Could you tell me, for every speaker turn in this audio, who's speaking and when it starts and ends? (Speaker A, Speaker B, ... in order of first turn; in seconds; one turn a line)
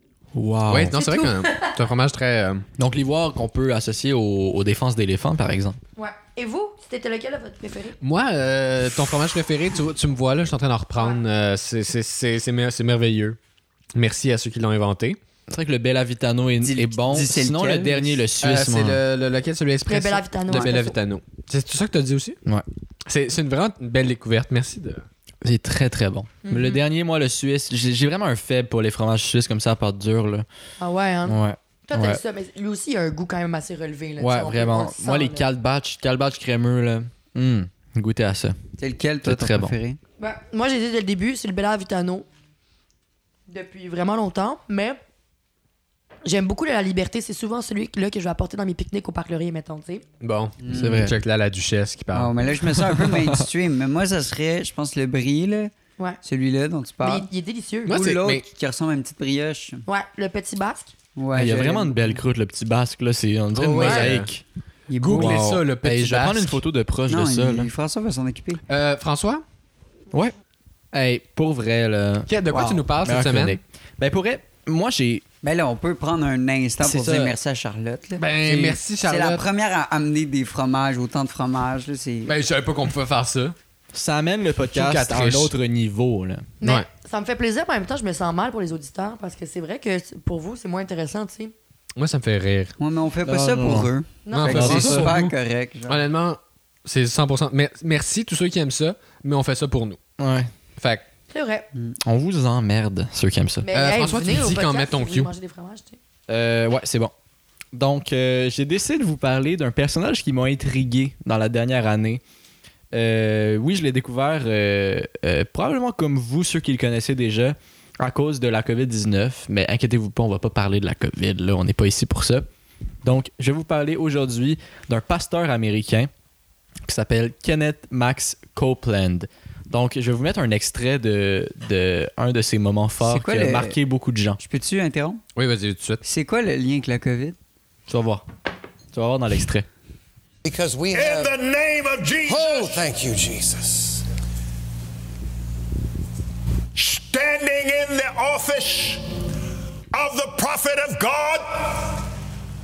Speaker A: 0.3-1.0
Speaker B: 0.7-2.6
Speaker C: 0.9-1.7
Speaker A: 2.8-5.8
Speaker C: 6.0-8.0
Speaker B: 8.0-13.4
Speaker B: 13.9-15.2
Speaker A: 15.5-19.0
Speaker D: 16.6-18.2
Speaker B: 18.4-22.4
Speaker C: 19.9-20.9
Speaker B: 23.1-25.0
Speaker A: 25.4-30.4
Speaker C: 26.4-26.8
Speaker C: 30.8-35.5
Speaker A: 31.2-32.2
Speaker A: 34.2-38.6
Speaker D: 38.8-40.0
Speaker A: 39.2-39.7
Speaker C: 40.2-42.3
Speaker C: 43.5-45.0
Speaker C: 46.2-50.0
Speaker B: 50.2-52.9
Speaker D: 50.6-51.0
Speaker A: 50.7-51.1
Speaker D: 52.1-57.3
Speaker C: 57.0-58.0
Speaker B: 57.9-58.4
Speaker D: 57.9-59.8
Speaker C: 59.9-60.9
Speaker D: 61.1-62.1
Speaker A: 61.3-64.4
Speaker B: 63.5-64.3
Speaker C: 63.8-64.1
Speaker D: 64.9-65.4
Speaker B: 65.0-66.6
Speaker A: 65.1-67.7
Speaker D: 67.1-68.6
Speaker B: 68.7-69.4
Speaker A: 70.9-75.2
Speaker B: 72.3-73.6
Speaker D: 75.4-78.3
Speaker A: 76.8-77.3
Speaker B: 78.2-79.4
Speaker A: 78.4-78.8
Speaker D: 79.0-82.3
Speaker B: 82.2-83.5
Speaker A: 83.9-86.5
Speaker B: 84.7-85.5
Speaker C: 86.6-91.5
Speaker B: 92.0-92.7
Speaker D: 92.8-96.0
Speaker A: 93.2-93.9
Speaker C: 94.2-94.8
Speaker B: 94.3-95.3
Speaker A: 94.4-95.3
Speaker B: 95.9-100.0
Speaker A: 100.2-100.5
Speaker B: 100.8-101.0
Speaker C: 101.3-101.7
Speaker A: 102.0-103.7
Speaker C: 103.6-106.0
Speaker B: 103.7-105.3
Speaker A: 106.3-107.1
Speaker A: 107.7-112.2
Speaker A: 112.9-122.5
Speaker A: 123.0-126.1
Speaker A: 126.8-134.4
Speaker D: 133.0-133.8
Speaker D: 134.4-135.2
Speaker B: 135.3-136.0
Speaker D: 136.0-137.4
Speaker A: 137.9-138.2
Speaker A: 138.9-139.7
Speaker E: 140.4-141.4
Speaker F: 140.9-142.9
Speaker E: 142.2-144.0
Speaker F: 146.7-149.0
Speaker F: 149.9-152.0